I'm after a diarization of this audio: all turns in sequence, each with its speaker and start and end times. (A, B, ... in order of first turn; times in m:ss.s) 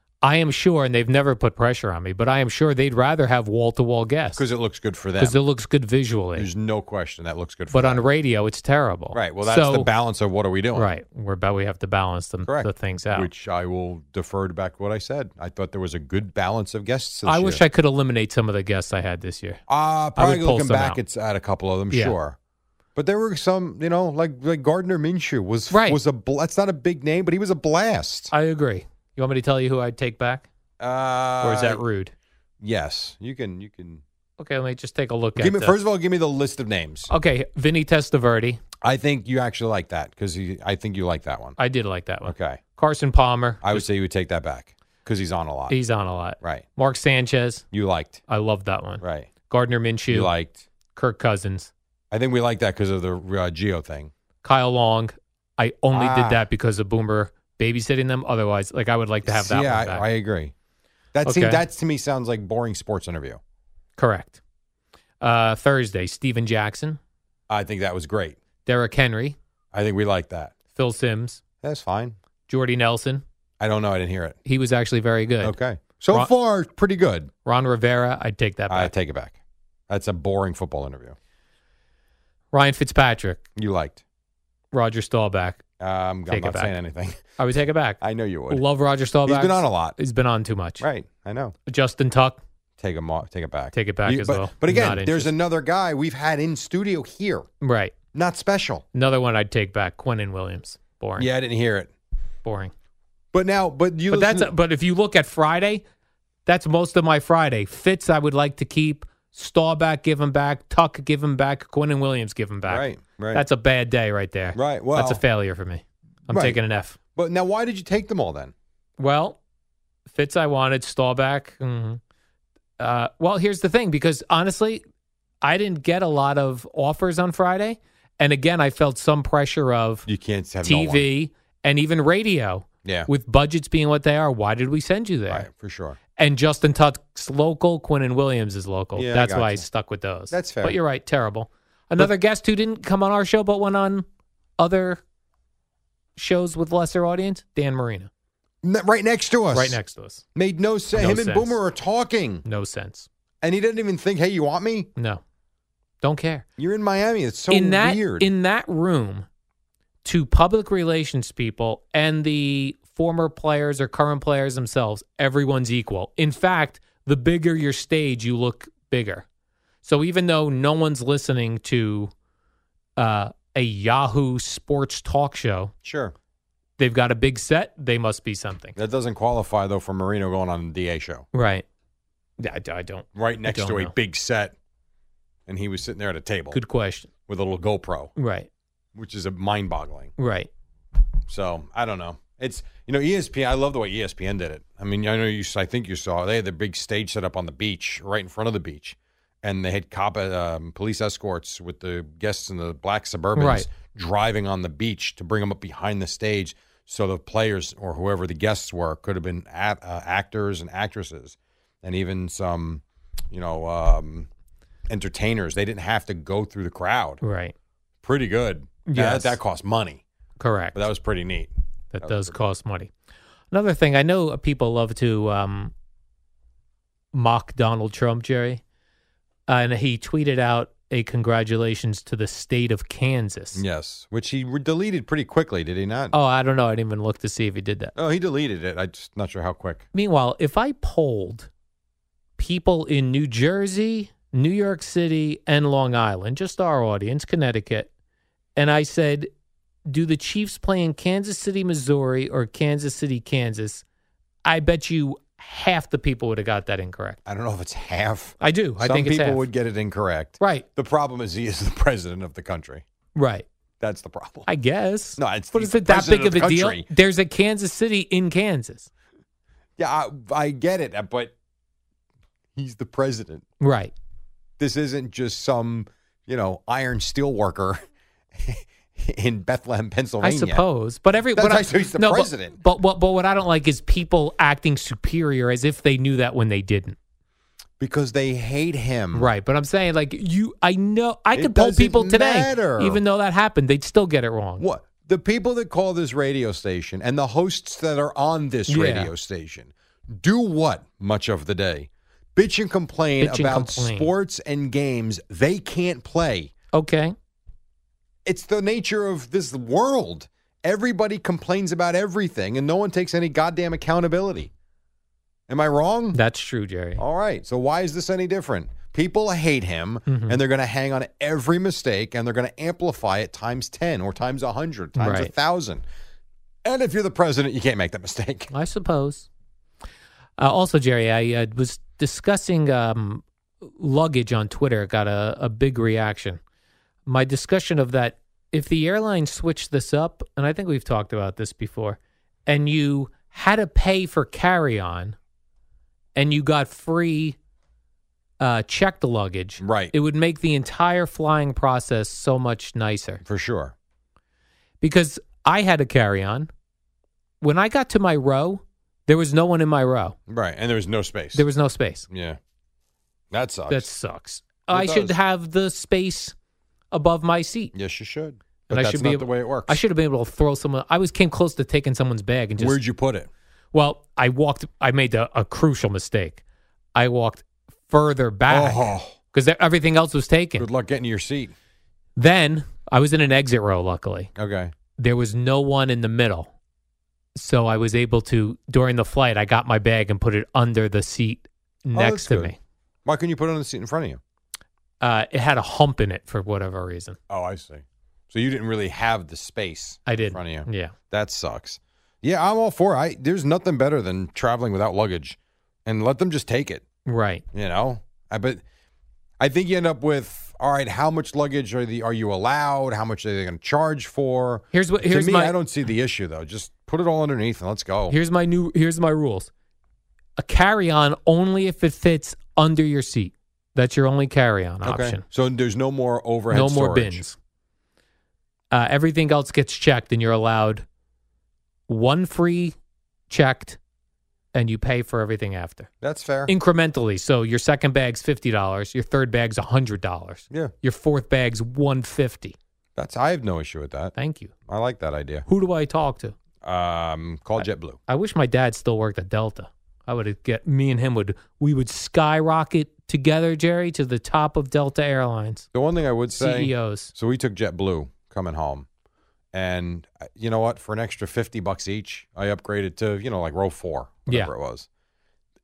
0:00.2-0:04.4 A
0:04.4-0:05.4 B
0:05.2-0:06.5 A
0:06.4-0:08.0 B
0:07.7-0:09.9 A
0:09.1-0:10.9 B
0:10.7-0:13.3 A
0:12.4-0:17.6 B
0:17.2-0:19.6 A
0:19.7-0:22.4 B
0:20.2-0:21.0 A
0:21.9-0:22.2 A
0:23.0-0:28.3 B
0:25.7-0:26.0 A
0:28.3-0:30.5 A
0:30.8-0:31.8 B
0:31.4-0:32.1 A
0:32.6-0:34.0 B
0:34.4-0:35.8 A
0:35.4-0:37.1 B
0:37.1-0:38.6 A
0:38.8-0:41.6 B
0:41.6-0:43.8 A
0:42.2-0:42.6 B
0:43.6-0:45.8 B
0:45.7-0:47.6 A
0:47.7-0:48.2 B
0:48.3-0:50.3 A
0:49.0-0:49.3 B
0:50.1-0:50.6 B
0:50.9-0:51.7 A
0:52.1-0:54.1 B
0:54.4-1:00.0 A
0:55.9-0:56.4 B
0:59.2-1:00.5 B
1:01.1-1:03.4 B
1:01.2-1:01.6 A
1:04.0-1:04.4 A
1:05.2-1:07.0 A
1:07.5-1:08.4 B
1:08.6-1:09.4 A
1:09.7-1:10.5 B
1:10.7-1:11.4 A
1:11.6-1:12.2 B
1:12.5-1:13.2 A
1:13.6-1:14.4 B
1:14.4-1:15.6 A
1:15.4-1:17.3 B
1:17.4-1:18.9 A
1:18.7-1:19.4 B
1:19.9-1:21.2 B
1:22.5-1:23.4 A
1:23.6-1:24.0 B
1:24.7-1:25.6 A
1:25.8-1:27.2 B
1:26.3-1:26.7 A
1:27.4-1:30.8 A
1:28.0-1:28.6 B
1:29.2-1:30.0 B
1:30.8-1:31.5 B
1:31.7-1:32.4 A
1:32.8-1:37.5 B
1:33.7-1:35.3 A
1:37.6-1:37.9 A
1:38.1-1:38.8 B
1:38.9-1:41.3 A
1:41.2-1:41.9 B
1:42.4-1:42.7 A
1:43.3-1:44.5 B
1:44.1-1:45.8 A
1:46.4-1:57.0 A
1:52.7-1:53.4 B
1:54.5-1:55.2 B
1:56.3-1:56.6 B
1:57.1-1:58.5 B
1:59.0-1:59.4 A
2:00.1-2:02.0 A
2:02.8-2:04.8 A
2:05.4-2:10.1 A
2:10.1-2:11.1 B
2:10.6-2:15.5 A
2:12.8-2:13.1 B
2:15.3-2:16.0 B
2:16.2-2:24.0 A
2:18.9-2:19.6 B
2:20.3-2:20.8 B
2:24.6-2:25.0 A
2:26.2-2:28.1 A
2:28.6-2:29.8 B
2:29.5-2:30.2 A
2:30.3-2:32.4 B
2:30.9-2:31.6 A
2:32.4-2:33.1 A
2:33.4-2:34.9 B
2:35.0-2:35.2 A
2:36.0-2:36.4 A
2:36.6-2:38.3 B
2:37.5-2:39.2 A
2:40.0-2:49.2 A
2:49.8-2:52.1 A
2:53.0-2:55.7 A
2:55.8-2:56.1 B
2:56.8-2:58.8 A
2:58.8-3:01.2 B
3:01.3-3:01.6 A
3:02.4-3:03.9 A
3:03.1-3:04.5 B
3:05.5-3:06.6 B
3:06.5-3:07.1 A
3:07.3-3:08.1 B
3:08.2-3:08.5 A
3:08.9-3:10.1 B
3:10.2-3:10.5 A
3:11.3-3:34.3 B
3:23.4-3:23.7 A
3:34.9-3:37.2 B
3:37.2-3:37.5 A
3:38.0-3:40.0 B
3:38.8-3:39.4 A
3:40.4-3:40.8 A
3:40.7-3:42.4 B
3:41.9-3:42.9 A
3:43.5-3:45.7 A
3:47.1-3:48.6 A
3:49.5-3:53.6 A
3:53.5-3:56.1 B
3:56.1-3:57.9 A
3:57.9-3:59.8 B
3:59.9-4:01.5 A
4:02.4-4:07.9 A
4:08.6-4:09.3 A
4:09.8-4:13.8 A
4:14.4-4:17.2 A
4:17.2-4:22.8 B
4:18.4-4:19.4 A
4:20.4-4:20.6 A
4:23.1-4:23.4 A
4:23.8-4:24.5 B
4:24.5-4:28.9 A
4:25.2-4:26.9 B
4:29.8-4:31.3 B
4:32.6-4:33.4 B
4:33.6-4:33.9 A
4:34.6-4:37.8 B
4:38.4-4:40.6 B
4:40.2-4:47.0 A
4:41.3-4:42.6 B
4:47.8-4:49.3 B
4:49.1-4:54.6 A
4:51.3-4:53.0 B
4:54.6-5:06.5 B
4:58.7-4:59.1 A
5:03.2-5:04.1 A
5:06.7-5:07.1 A
5:08.2-5:14.5 B
5:15.5-5:16.2 B
5:16.1-5:17.0 A
5:17.0-5:25.8 B
5:20.1-5:20.4 A
5:25.0-5:25.3 A
5:26.6-5:28.5 B
5:28.5-5:29.3 A
5:30.4-5:36.4 A
5:37.0-5:45.2 A
5:46.2-5:47.4 A
5:48.4-5:53.2 A
5:49.6-5:49.9 B
5:53.2-5:53.7 B
5:54.8-5:56.5 A
5:57.4-6:00.2 A
6:00.3-6:01.4 B
6:01.3-6:02.1 A
6:02.1-6:02.4 B
6:03.3-6:03.9 B
6:03.7-6:06.3 A
6:04.7-6:05.2 B
6:06.9-6:07.7 A
6:07.7-6:09.8 B
6:08.7-6:12.8 A
6:12.6-6:13.3 B
6:13.7-6:16.4 A
6:16.9-6:20.7 A
6:18.5-6:19.1 B
6:20.6-6:21.5 B
6:22.2-6:24.3 A
6:24.4-6:24.7 B
6:25.0-6:26.5 A
6:27.3-6:32.6 A
6:31.9-6:34.2 B
6:35.0-6:37.2 A
6:37.3-6:46.8 B
6:40.1-6:40.9 A
6:47.0-6:47.4 A
6:47.5-6:48.6 B
6:49.4-6:58.2 B
6:54.7-6:55.6 A
6:58.1-6:59.5 A
7:00.4-7:05.2 A
7:04.8-7:07.2 B
7:06.5-7:07.4 A
7:08.7-7:10.8 A
7:11.9-7:12.7 A
7:13.3-7:13.8 A
7:14.5-7:15.9 A
7:16.0-7:16.5 B
7:16.5-7:22.6 A
7:23.0-7:24.1 B
7:24.2-7:24.5 A
7:24.6-7:25.4 B
7:25.5-7:26.3 A
7:26.6-7:28.0 B
7:28.1-7:35.7 A
7:35.7-7:38.9 B
7:36.4-7:37.1 A
7:39.5-7:44.9 B